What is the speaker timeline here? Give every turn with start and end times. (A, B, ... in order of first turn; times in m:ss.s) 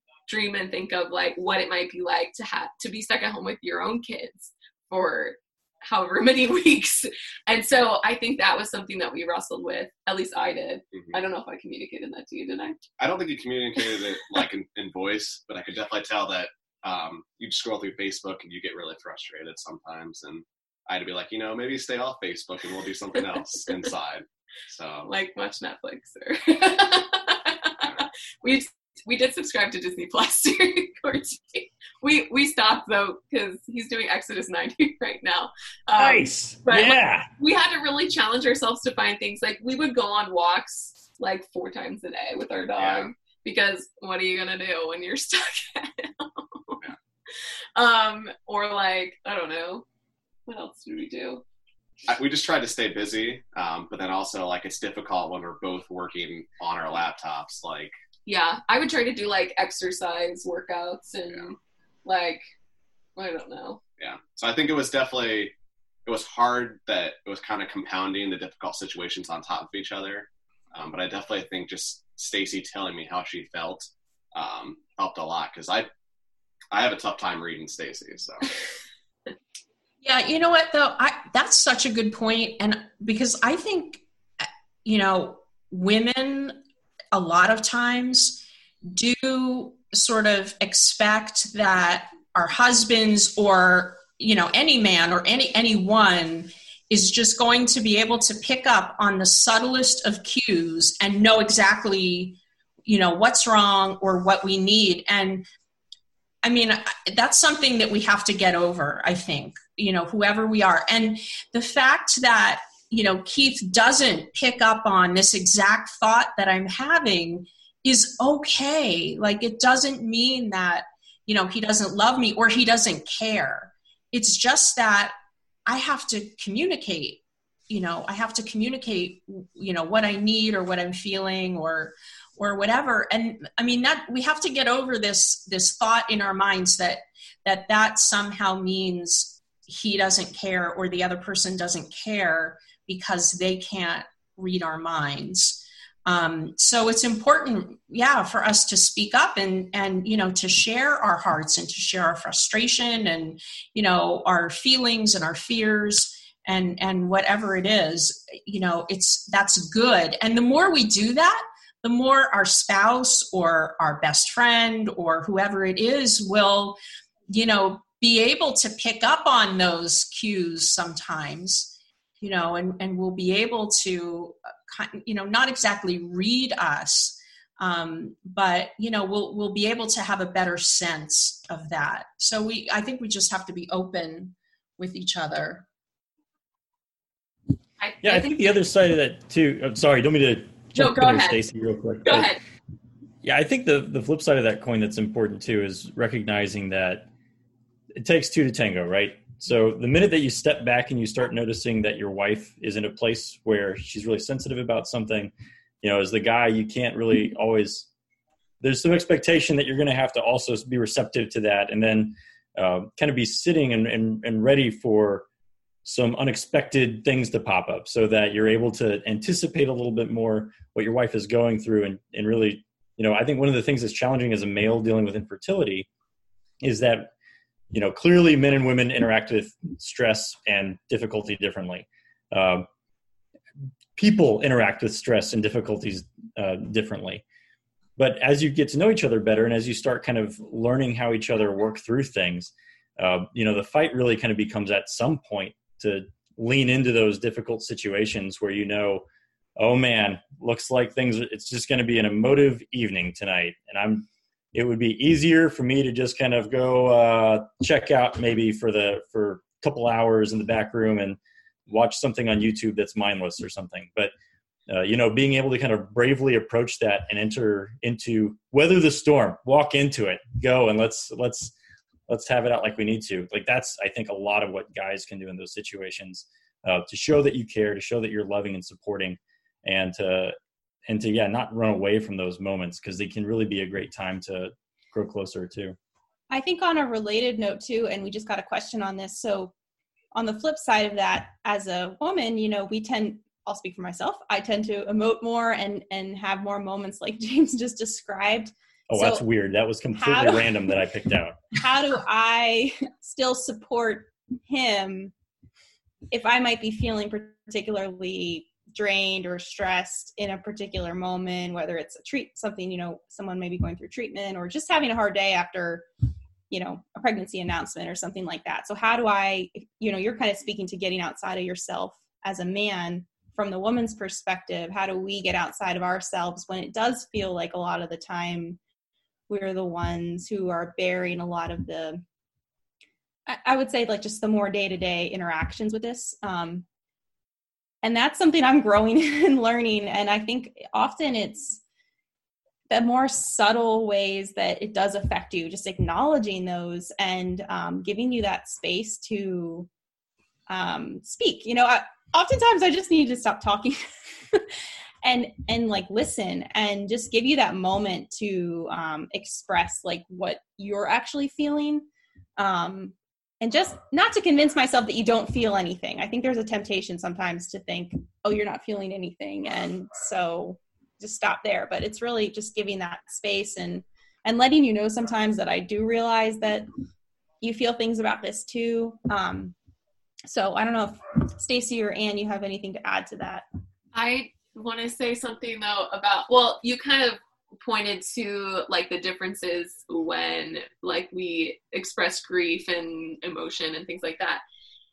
0:00.3-0:12.9 A
0:10.9-0:11.2 B
0:13.0-0:25.1 B
0:25.1-0:46.8 A
0:36.0-0:37.3 C
0:42.8-0:43.1 B
0:47.4-0:49.9 A
0:50.5-0:51.4 A
0:52.1-0:57.9 B
0:58.3-1:02.4 A
1:03.2-1:03.8 A
1:04.0-1:05.5 B
1:06.1-1:15.9 B
1:16.7-1:18.5 B
1:20.0-1:26.6 D
1:27.1-1:45.5 D
1:46.4-2:05.1 D
2:05.7-2:46.8 D
2:47.3-3:05.6 D
3:07.8-3:08.6 A
3:08.0-3:12.4 C
3:10.8-3:11.4 A
3:12.0-3:12.4 A
3:13.2-3:17.1 C
3:18.0-3:27.9 C
3:28.6-3:35.3 C
3:35.8-3:45.9 C
3:46.6-3:47.1 C
3:47.7-3:52.7 C
3:54.0-3:57.2 C
3:58.0-4:09.1 C
4:09.6-4:24.1 C
4:24.7-4:31.5 C
4:32.1-4:40.4 C
4:40.9-4:45.8 C
4:46.3-4:49.5 E
4:50.1-4:59.3 E
4:58.9-5:01.4 C
5:00.0-5:00.6 E
5:01.5-5:05.1 E
5:06.1-5:15.9 E
5:16.5-5:28.6 E
5:29.3-5:32.0 E
5:33.3-5:36.6 E
5:37.8-5:41.6 E
5:42.7-5:49.7 E
5:50.5-5:54.5 E
5:55.0-6:01.9 E
6:02.4-6:16.7 E
6:17.4-6:19.5 E
6:20.3-6:23.5 E
6:23.9-6:34.4 A